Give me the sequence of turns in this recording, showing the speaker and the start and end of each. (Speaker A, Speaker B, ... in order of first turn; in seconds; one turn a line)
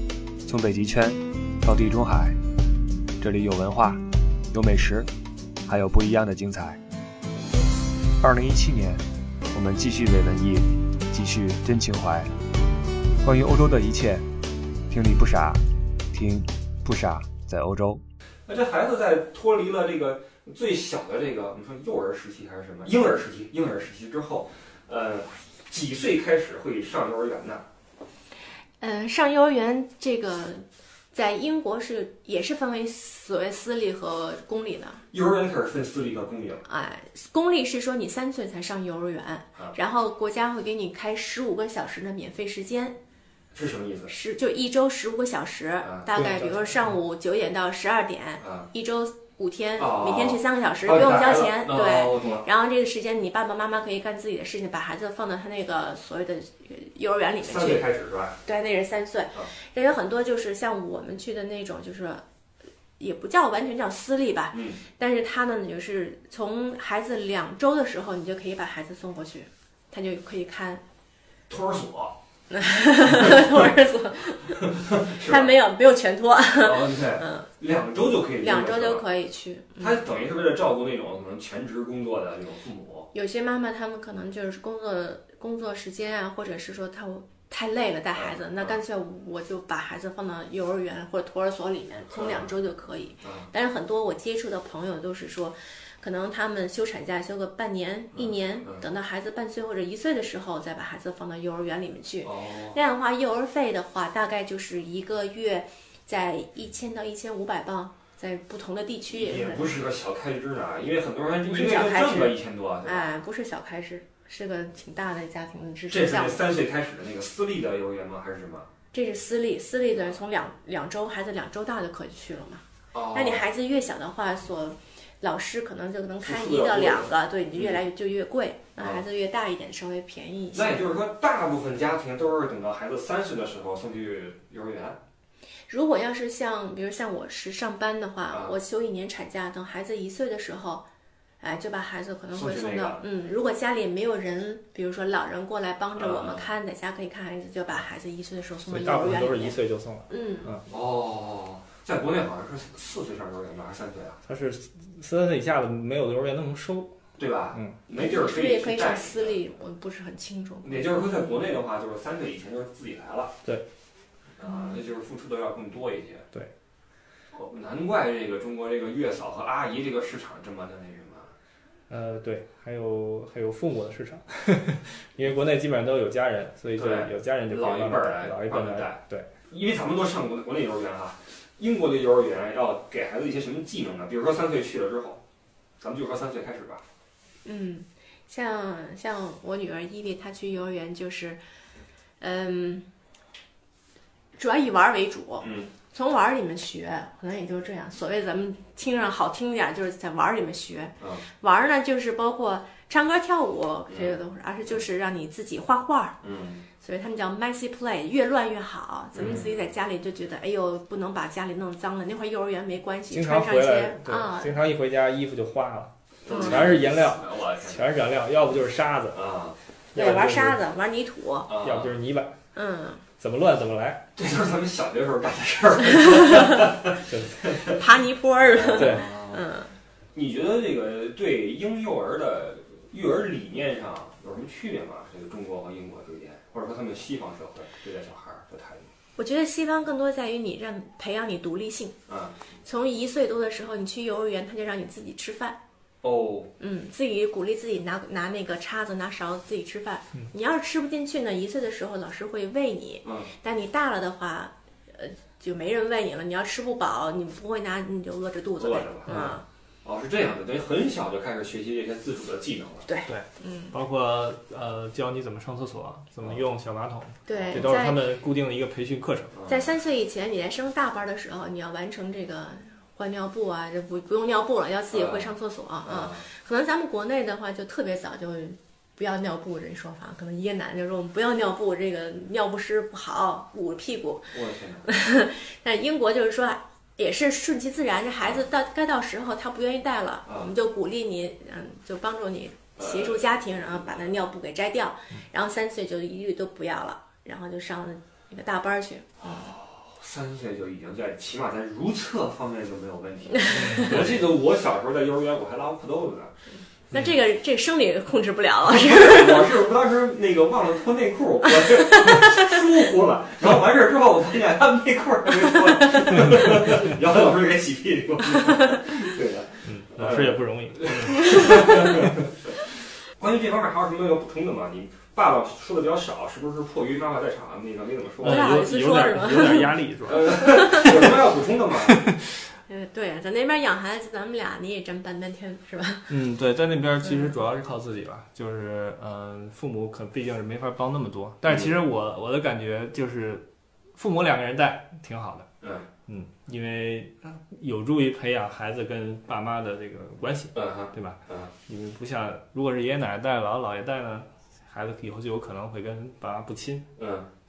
Speaker A: 0.5-2.4
Speaker A: 3.2-4.0
Speaker A: 4.5-5.1
Speaker A: 5.7-6.8
Speaker A: 8.2-9.0
Speaker A: 9.5-12.3
Speaker A: 13.2-14.2
Speaker A: 14.9-15.6
Speaker A: 16.1-18.0
Speaker B: 18.5-27.6
Speaker C: 28.8-35.0
Speaker B: 35.1-36.6
Speaker C: 36.6-43.0
Speaker B: 43.5-44.1
Speaker C: 44.1-57.9
Speaker D: 46.1-46.8
Speaker B: 48.4-48.7
Speaker B: 49.8-52.5
Speaker B: 57.4-58.4
Speaker C: 58.4-62.2
Speaker C: 63.0-70.8
Speaker B: 64.5-64.8
Speaker B: 71.5-72.2
Speaker C: 72.5-77.5
Speaker B: 74.6-75.5
Speaker B: 76.6-79.0
Speaker C: 78.4-80.0
Speaker B: 79.8-83.1
Speaker C: 83.1-109.7
Speaker B: 88.1-88.8
Speaker B: 92.1-92.5
Speaker B: 93.2-93.5
Speaker B: 98.2-98.8
Speaker B: 102.2-102.8
Speaker B: 109.1-113.1
Speaker C: 111.4-116.4
Speaker B: 115.9-118.7
Speaker C: 118.9-130.8
Speaker B: 122.9-123.4
Speaker B: 126.2-127.8
Speaker B: 130.5-135.0
Speaker C: 135.7-140.8
Speaker C: 141.4-149.6
Speaker B: 142.3-143.1
Speaker B: 145.9-146.5
Speaker D: 148.7-150.6
Speaker C: 150.1-150.5
Speaker B: 150.7-154.2
Speaker D: 154.2-156.9
Speaker B: 157.2-159.4
Speaker D: 157.5-157.8
Speaker C: 157.9-161.4
Speaker B: 160.6-163.3
Speaker B: 164.4-166.3
Speaker B: 167.3-171.3
Speaker D: 171.9-179.3
Speaker B: 176.8-185.2
Speaker B: 185.8-186.8
Speaker C: 187.4-191.4
Speaker C: 192.2-192.9
Speaker C: 194.3-206.2
Speaker B: 195.4-195.7
Speaker B: 203.9-204.1
Speaker B: 206.2-206.6
Speaker C: 206.8-214.6
Speaker B: 209.1-209.6
Speaker D: 213.1-219.2
Speaker B: 216.2-217.9
Speaker C: 216.3-216.5
Speaker B: 219.1-219.6
Speaker D: 219.9-220.6
Speaker C: 219.9-221.5
Speaker B: 221.5-221.9
Speaker D: 221.5-222.3
Speaker C: 222.5-223.0
Speaker D: 223.2-224.1
Speaker B: 224.2-227.8
Speaker C: 226.2-226.6
Speaker D: 227.1-227.8
Speaker C: 227.6-229.7
Speaker B: 228.5-229.4
Speaker D: 228.8-229.1
Speaker B: 230.1-238.9
Speaker C: 239.2-242.0
Speaker B: 242.1-242.4
Speaker C: 242.6-245.6
Speaker B: 246.0-246.5
Speaker C: 246.6-259.4
Speaker B: 253.0-253.3
Speaker B: 258.6-259.2
Speaker D: 259.1-259.4
Speaker B: 259.8-262.9
Speaker C: 262.9-263.7
Speaker D: 263.1-269.3
Speaker C: 267.3-268.0
Speaker B: 267.3-267.7
Speaker B: 269.3-269.6
Speaker C: 269.5-299.5
Speaker B: 274.9-275.3
Speaker B: 275.9-276.2
Speaker B: 284.3-284.9
Speaker B: 290.2-290.5
Speaker B: 292.8-294.0
Speaker B: 299.2-306.3
Speaker C: 303.4-303.8
Speaker D: 303.5-304.2
Speaker C: 306.9-309.6
Speaker B: 308.6-328.5
Speaker C: 311.4-312.5
Speaker D: 319.6-322.1
Speaker D: 328.2-331.1
Speaker C: 328.2-329.8
Speaker B: 330.1-332.0
Speaker C: 330.5-330.9
Speaker D: 331.9-332.2
Speaker C: 332.7-336.2
Speaker D: 336.1-343.4
Speaker D: 344.0-345.5
Speaker B: 345.6-345.9
Speaker D: 346.1-356.9
Speaker B: 350.5-351.5
Speaker B: 357.0-357.3